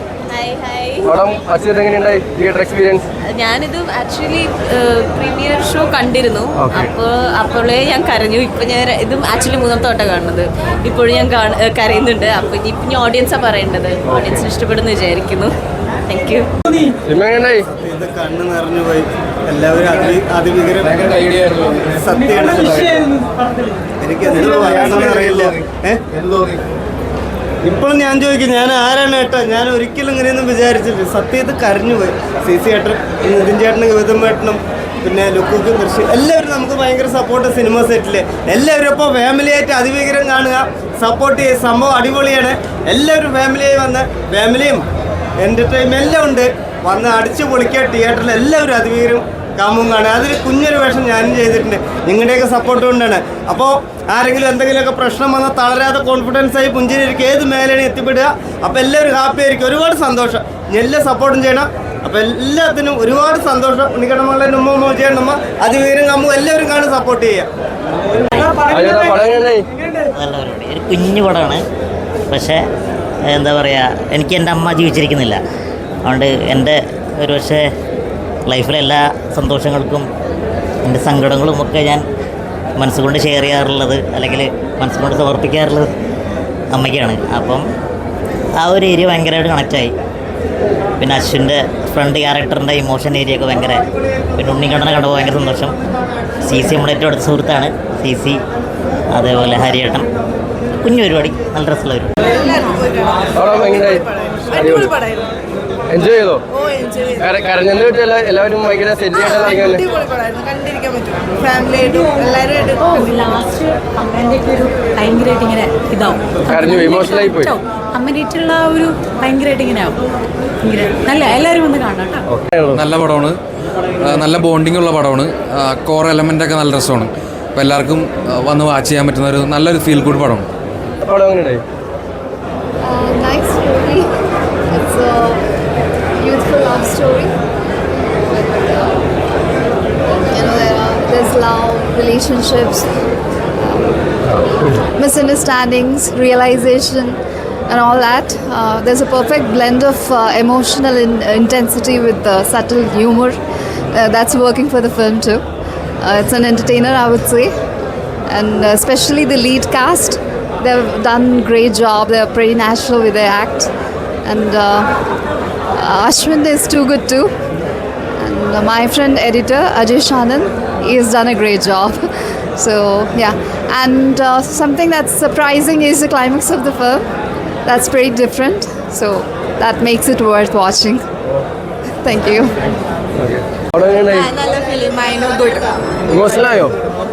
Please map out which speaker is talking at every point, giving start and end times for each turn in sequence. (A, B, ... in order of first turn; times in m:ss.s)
0:00.3-0:01.2 A
0:01.0-0:03.0 B
0:03.3-0:15.5 A
0:06.6-0:06.9 B
0:14.1-0:14.4 B
0:16.1-0:16.5 A
0:17.1-0:17.6 B
0:17.7-0:23.1 C
0:24.0-0:26.0 C
0:27.6-0:44.8 C
0:45.4-1:07.5 C
1:08.2-1:08.6 D
1:08.6-1:09.6 B
1:10.1-1:11.6 D
1:12.3-1:12.6 D
1:13.3-1:15.4 D
1:16.0-1:17.7 D
1:18.4-1:20.1 D
1:20.8-1:22.0 D
1:22.8-1:25.9 D
1:26.7-1:27.6 D
1:28.6-1:29.9 D
1:31.0-1:33.8 D
1:34.4-1:35.7 D
1:36.4-1:38.4 D
1:39.1-1:40.1 D
1:40.8-1:42.1 D
1:43.3-1:44.0 B
1:44.5-1:44.9 B
1:44.6-1:44.8 E
1:45.9-1:46.4 B
1:47.2-1:49.8 B
1:50.5-1:50.8 E
1:51.4-1:52.6 E
1:52.8-2:00.0 F
1:56.5-1:57.5 B
2:00.6-2:02.2 F
2:02.3-2:02.8 B
2:02.7-2:03.4 G
2:04.0-2:10.4 G
2:11.0-2:11.6 B
2:12.8-2:14.1 H
2:14.7-2:15.4 H
2:16.2-2:17.3 H
2:18.3-2:19.0 H
2:20.3-2:22.9 H
2:23.6-2:33.4 H
2:33.9-2:35.4 H
2:36.0-2:37.5 H
2:38.3-2:43.7 H
2:44.2-2:44.9 H
2:45.7-2:47.3 H
2:48.2-2:57.1 H
2:57.6-3:01.0 H
3:02.0-3:02.6 H
3:03.2-3:04.3 B
3:04.2-3:05.8 E
3:06.1-3:06.7 B